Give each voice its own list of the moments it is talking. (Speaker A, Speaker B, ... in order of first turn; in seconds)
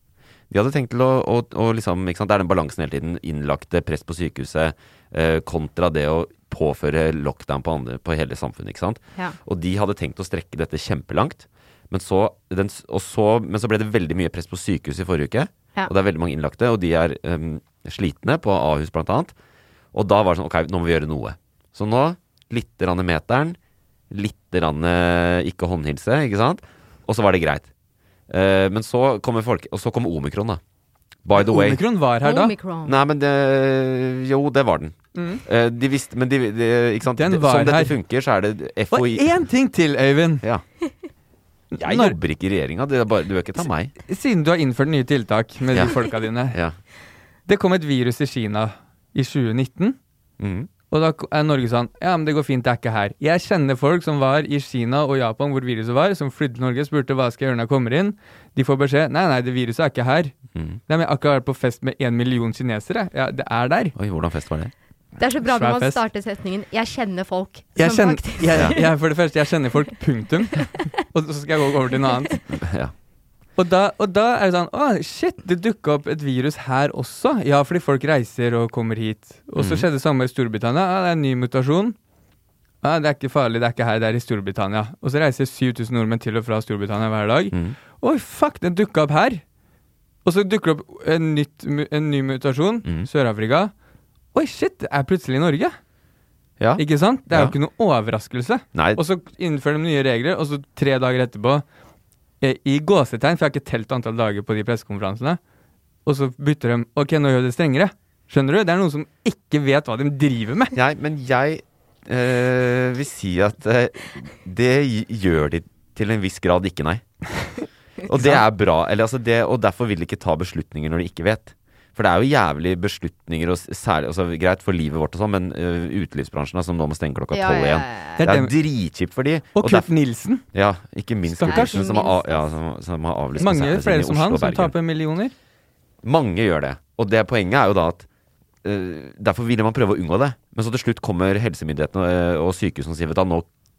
Speaker A: 0.5-19.3, 19.9-23.6, 24.1-27.7, 28.3-30.6, 31.2-31.8, 32.9-39.4, 41.8-43.9, 50.4-50.7, 60.5-60.8, 64.0-64.7, 68.5-68.8, 72.5-72.9, 79.6-79.9, 87.5-87.8, 96.6-97.6, 98.8-99.0, 110.7-117.1, 118.1-129.9, 130.5-134.8, 136.0-138.1, 138.6-143.5
Speaker B: 31.4-32.5, 35.1-35.4, 37.2-38.0, 38.9-40.4, 41.7-42.2, 44.1-46.6, 47.5-50.0, 50.9-60.3, 60.9-64.0, 65.4-66.0, 67.8-72.5, 73.6-82.0, 82.8-89.4, 90.2-93.7, 94.3-95.8, 96.8-101.6, 102.4-105.4, 106.1-110.8, 118.2-118.4, 128.2-128.5, 129.6-130.4, 131.3-132.0, 133.4-135.3
Speaker C: 32.2-33.0, 65.2-68.9, 127.3-128.2, 131.5-132.5